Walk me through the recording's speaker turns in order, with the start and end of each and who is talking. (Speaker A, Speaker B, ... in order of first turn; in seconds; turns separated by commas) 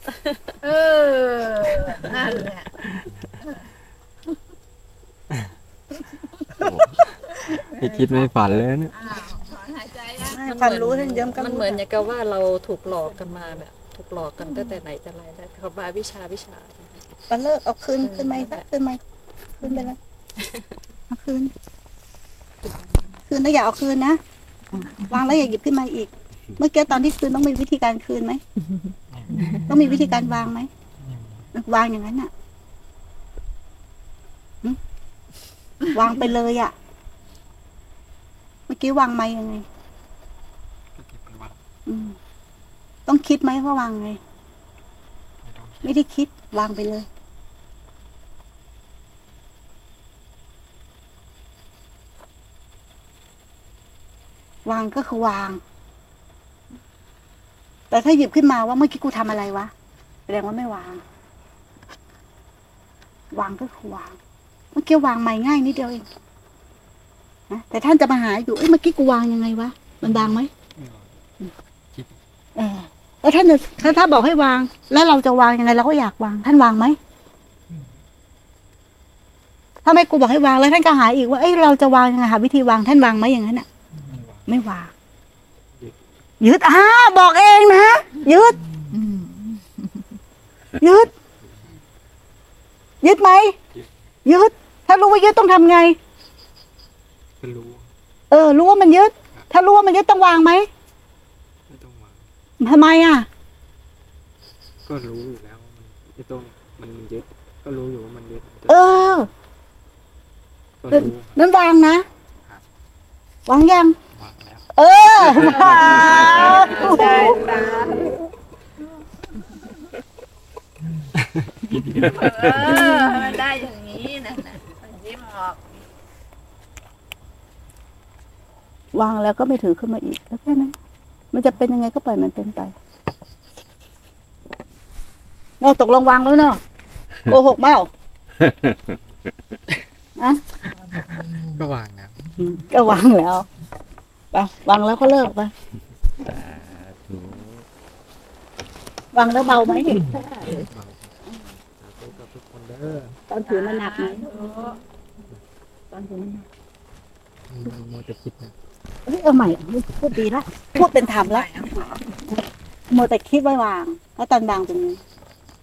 Speaker A: 0.6-2.9, Speaker B: 6.6-6.9, Speaker A: 7.5-8.3, Speaker B: 7.8-8.9, Speaker A: 8.9-10.4, Speaker C: 10.3-12.1, Speaker D: 10.4-17.0, Speaker C: 17.3-19.0, Speaker D: 18.0-18.6, Speaker C: 19.6-20.0, Speaker C: 21.1-21.5, Speaker C: 23.3-24.2, Speaker C: 24.7-28.4, Speaker B: 29.1-29.5, Speaker C: 29.6-30.7, Speaker B: 31.0-31.5, Speaker C: 31.5-32.3, Speaker C: 35.9-36.7, Speaker C: 38.7-39.6, Speaker B: 41.0-41.6, Speaker C: 41.9-42.2, Speaker C: 43.0-44.2, Speaker B: 45.4-46.0, Speaker C: 45.8-47.1, Speaker C: 54.6-55.6, Speaker C: 57.9-59.7, Speaker C: 60.3-61.0, Speaker C: 63.3-64.2, Speaker C: 64.7-66.1, Speaker C: 67.5-70.5, Speaker B: 70.0-71.1, Speaker B: 71.9-72.2, Speaker C: 72.5-77.0, Speaker C: 79.8-83.7, Speaker B: 84.0-84.5, Speaker C: 84.5-84.9, Speaker C: 86.4-88.6, Speaker C: 90.8-91.1, Speaker B: 91.4-91.8, Speaker C: 93.0-93.5, Speaker C: 94.2-96.0, Speaker B: 97.4-97.9, Speaker C: 98.3-100.7, Speaker B: 101.7-102.3, Speaker C: 102.6-103.3, Speaker B: 104.8-109.1, Speaker C: 108.7-109.3, Speaker B: 110.8-111.3, Speaker C: 110.9-112.0, Speaker C: 113.5-114.0, Speaker B: 114.1-116.6, Speaker C: 114.7-118.2, Speaker A: 115.6-118.2, Speaker B: 121.2-121.7, Speaker A: 121.9-125.6, Speaker C: 128.9-130.7, Speaker C: 131.3-132.7, Speaker C: 135.6-136.6, Speaker C: 137.2-137.9, Speaker C: 140.2-140.4, Speaker B: 141.4-142.2, Speaker C: 142.4-143.5, Speaker C: 144.3-145.5, Speaker C: 149.1-150.2, Speaker A: 150.1-150.6, Speaker B: 150.6-151.0, Speaker B: 151.8-153.2, Speaker C: 153.3-154.3, Speaker A: 153.5-154.8, Speaker C: 155.9-156.5, Speaker B: 157.5-158.5, Speaker C: 159.1-161.8, Speaker A: 161.0-161.7, Speaker C: 162.9-165.0